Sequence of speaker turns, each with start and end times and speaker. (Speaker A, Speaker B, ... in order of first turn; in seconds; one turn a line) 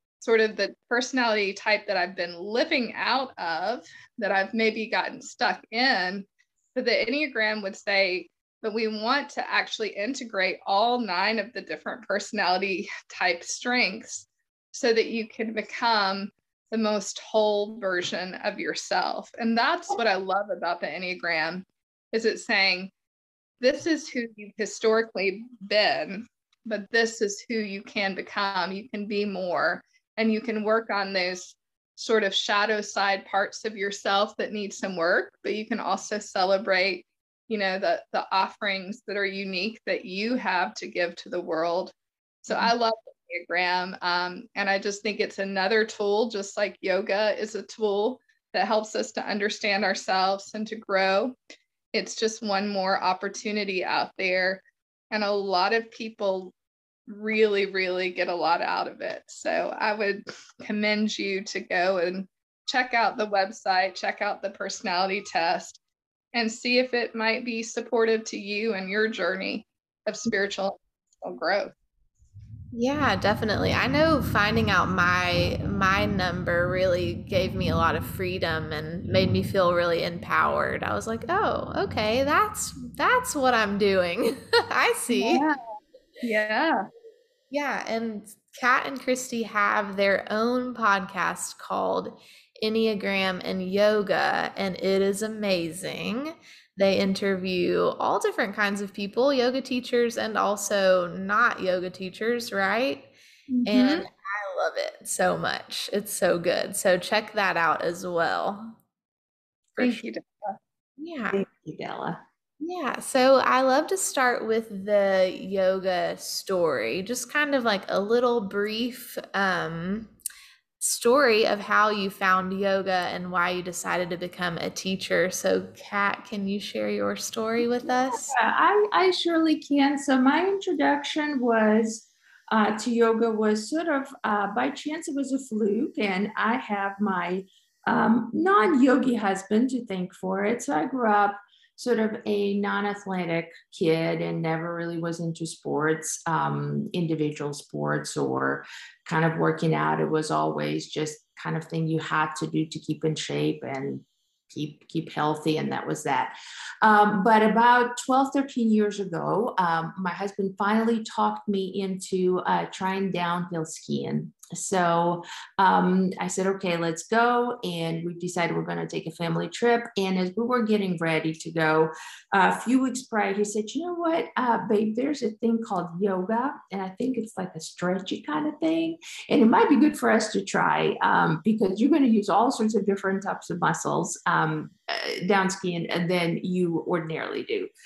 Speaker A: 0.2-22.9
Speaker A: 23.6-41.9
Speaker A: 42.4-51.4
Speaker A: 51.9-56.5
Speaker A: 57.1-65.8
Speaker A: 66.3-71.7
Speaker B: 72.7-85.5
Speaker A: 85.1-85.5
Speaker A: 86.2-86.8
Speaker B: 87.5-103.1
Speaker A: 103.5-104.1
Speaker B: 103.7-108.8
Speaker A: 109.8-110.6
Speaker B: 111.0-111.4
Speaker C: 111.3-112.2
Speaker B: 112.6-120.1
Speaker B: 120.8-128.3
Speaker C: 128.0-187.7